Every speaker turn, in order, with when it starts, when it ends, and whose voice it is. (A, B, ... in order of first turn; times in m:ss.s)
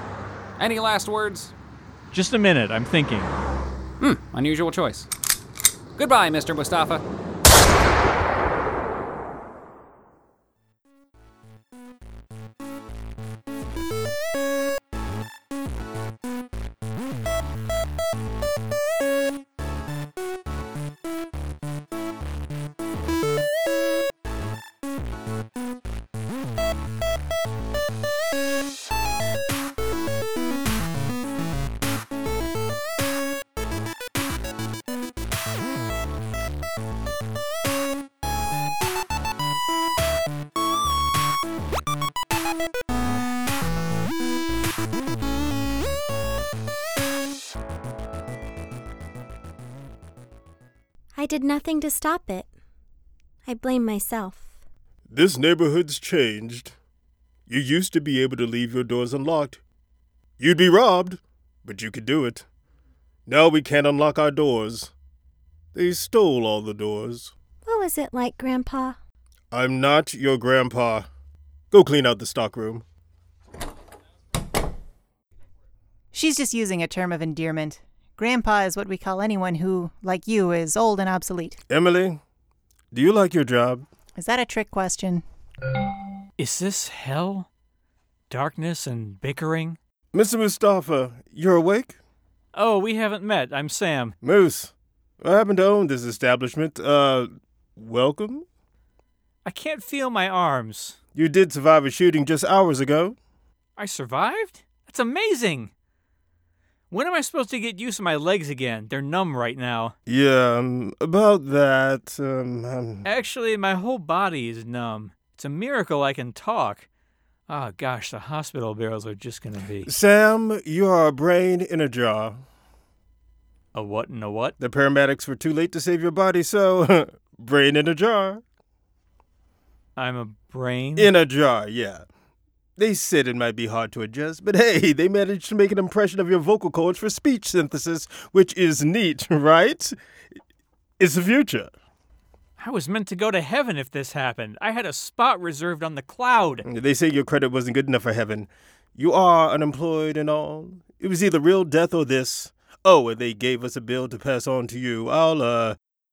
0:00.6-0:01.5 A
0:02.1-0:03.3 B
0:04.0-0:05.1 A
0:06.0-0:07.0 A
0:51.2-0:52.5 C
0:53.5-0:54.5 C
0:55.1-0:56.8 D
0:57.5-0:59.6 D
1:00.4-1:02.5 D
1:03.3-1:04.9 D
1:05.7-1:07.3 D
1:07.6-1:09.0 C
1:09.5-1:11.1 D
1:11.7-1:12.8 D
1:16.1-1:21.6 E
1:21.7-1:22.2 D
1:22.9-1:23.9 D
1:24.2-1:25.2 E
1:26.4-1:27.5 B
1:28.3-1:29.8 B
1:30.1-1:32.0 D
1:32.5-1:34.2 B
1:34.2-1:38.5 D
1:39.4-1:41.0 B
1:41.2-1:43.2 D
1:43.8-1:45.7 B
1:46.9-1:50.0 B
1:50.1-1:53.1 D
1:53.0-1:56.9 B
1:57.5-1:59.9 B
1:59.9-2:02.4 D
2:03.7-2:04.6 B
2:04.6-2:08.4 D
2:10.0-2:11.1 B
2:11.0-2:12.0 D
2:12.8-2:20.0 D
2:21.0-2:21.7 D
2:22.6-2:26.7 B
2:26.6-2:35.8 D